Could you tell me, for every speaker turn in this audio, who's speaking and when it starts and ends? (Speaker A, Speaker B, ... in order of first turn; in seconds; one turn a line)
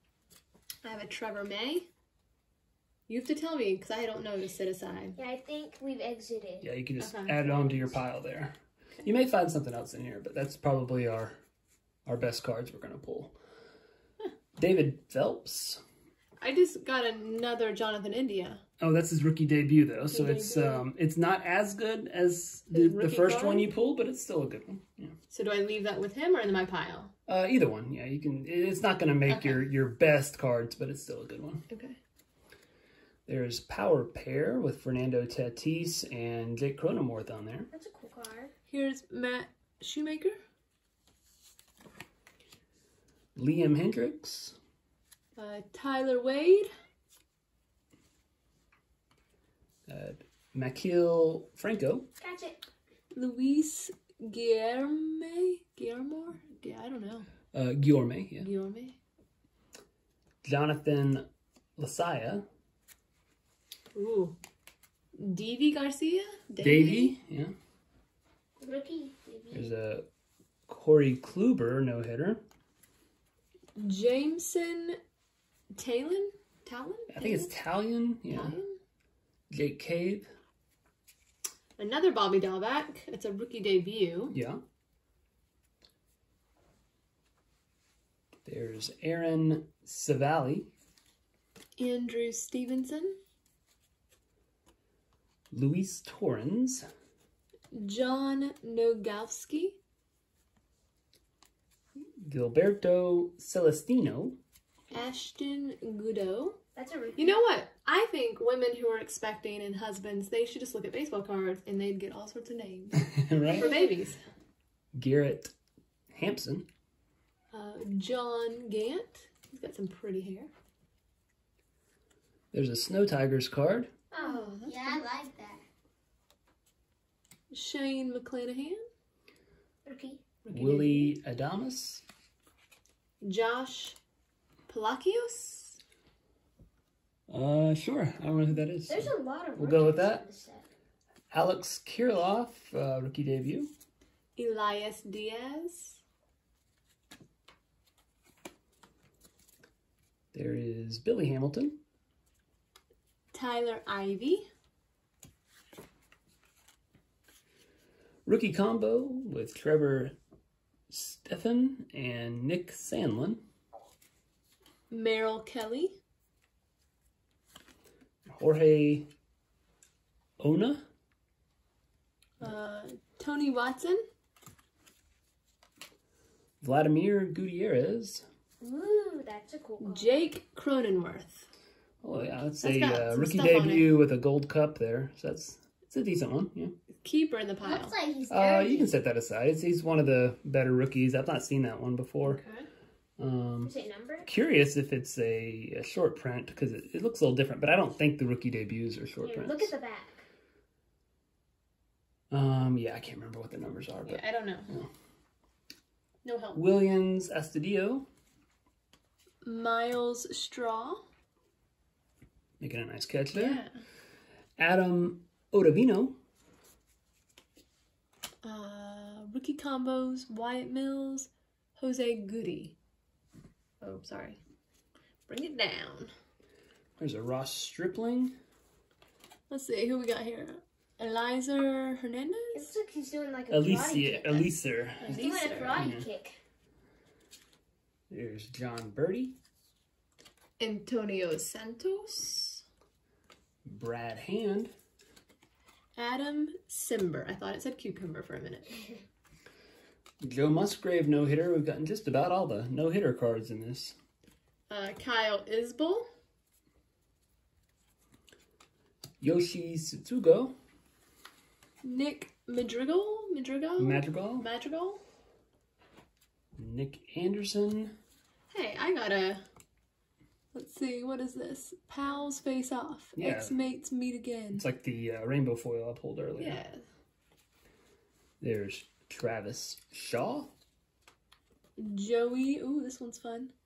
Speaker A: 0.8-1.9
Speaker A: 3.1-5.2
Speaker B: 5.2-6.7
Speaker C: 6.6-11.4
Speaker A: 7.0-7.4
Speaker C: 12.1-13.4
Speaker C: 14.6-15.8
Speaker A: 16.4-18.6
Speaker C: 18.8-25.1
Speaker A: 20.1-20.9
Speaker A: 22.7-23.7
Speaker A: 25.3-27.1
Speaker C: 27.3-31.6
Speaker A: 29.3-29.6
Speaker A: 31.7-32.0
Speaker C: 33.3-37.7
Speaker B: 37.7-38.5
Speaker A: 38.7-40.4
Speaker C: 43.4-44.5
Speaker A: 45.4-46.7
Speaker C: 49.9-52.1
Speaker B: 52.2-52.6
Speaker A: 53.1-57.3
Speaker C: 57.5-58.5
Speaker A: 58.4-59.0
Speaker C: 60.4-61.2
Speaker C: 61.8-62.4
Speaker A: 63.9-64.4
Speaker A: 65.1-67.1
Speaker C: 66.6-67.5
Speaker B: 68.6-69.7
Speaker C: 69.5-70.1
Speaker C: 70.7-72.4
Speaker A: 73.8-75.0
Speaker A: 75.7-77.5
Speaker C: 77.1-78.6
Speaker A: 78.3-78.7
Speaker C: 79.5-80.3
Speaker A: 81.8-84.4
Speaker C: 84.3-84.6
Speaker C: 88.5-90.7
Speaker A: 91.8-93.2
Speaker C: 95.5-96.9
Speaker A: 97.7-99.8
Speaker C: 102.2-104.4
Speaker A: 104.9-106.6
Speaker B: 106.8-107.4
Speaker A: 107.2-114.2
Speaker C: 113.0-113.7
Speaker C: 114.9-115.5
Speaker C: 116.1-116.7
Speaker A: 117.5-120.5
Speaker C: 122.5-123.9
Speaker B: 124.1-125.6
Speaker A: 124.1-125.0
Speaker A: 127.5-128.8
Speaker B: 129.8-130.2
Speaker A: 130.4-131.1
Speaker C: 130.5-132.0
Speaker A: 133.2-134.0
Speaker A: 134.7-135.8
Speaker C: 137.3-140.2
Speaker B: 138.9-140.6
Speaker C: 141.3-143.7
Speaker A: 144.4-146.0
Speaker C: 150.3-151.8
Speaker A: 153.3-154.5
Speaker C: 158.2-160.1
Speaker C: 160.9-163.4
Speaker A: 164.9-166.0
Speaker C: 168.3-169.1
Speaker C: 170.4-170.8
Speaker A: 172.4-174.0
Speaker C: 176.6-178.2
Speaker B: 178.6-180.2
Speaker A: 179.8-181.5
Speaker C: 182.0-186.7
Speaker A: 182.6-184.0
Speaker A: 187.0-187.9
Speaker B: 187.6-188.9
Speaker C: 188.3-192.4
Speaker A: 192.2-192.7
Speaker C: 193.2-193.7
Speaker B: 193.6-194.3
Speaker C: 194.2-199.7
Speaker B: 199.2-200.2
Speaker C: 202.3-204.9
Speaker A: 204.1-204.7
Speaker A: 206.2-206.6
Speaker C: 206.5-208.1
Speaker A: 209.4-211.0
Speaker C: 212.6-213.6
Speaker A: 213.3-213.8
Speaker C: 214.6-216.2
Speaker A: 218.4-222.8
Speaker A: 223.8-224.4
Speaker A: 225.3-226.1
Speaker C: 227.0-228.3
Speaker A: 229.5-232.7
Speaker B: 232.5-234.5
Speaker C: 233.5-236.1
Speaker A: 235.0-236.0
Speaker B: 235.1-236.4
Speaker C: 238.1-239.3
Speaker A: 240.6-242.6
Speaker C: 243.7-244.7
Speaker A: 246.0-248.8
Speaker C: 250.2-254.0
Speaker A: 254.7-256.1
Speaker C: 259.2-260.5
Speaker A: 261.8-265.0
Speaker C: 263.8-264.5
Speaker C: 266.6-267.9
Speaker A: 268.5-269.4
Speaker A: 270.5-274.6
Speaker C: 273.1-273.5
Speaker C: 274.5-276.6
Speaker A: 276.4-276.8
Speaker C: 278.4-280.5
Speaker A: 281.8-283.5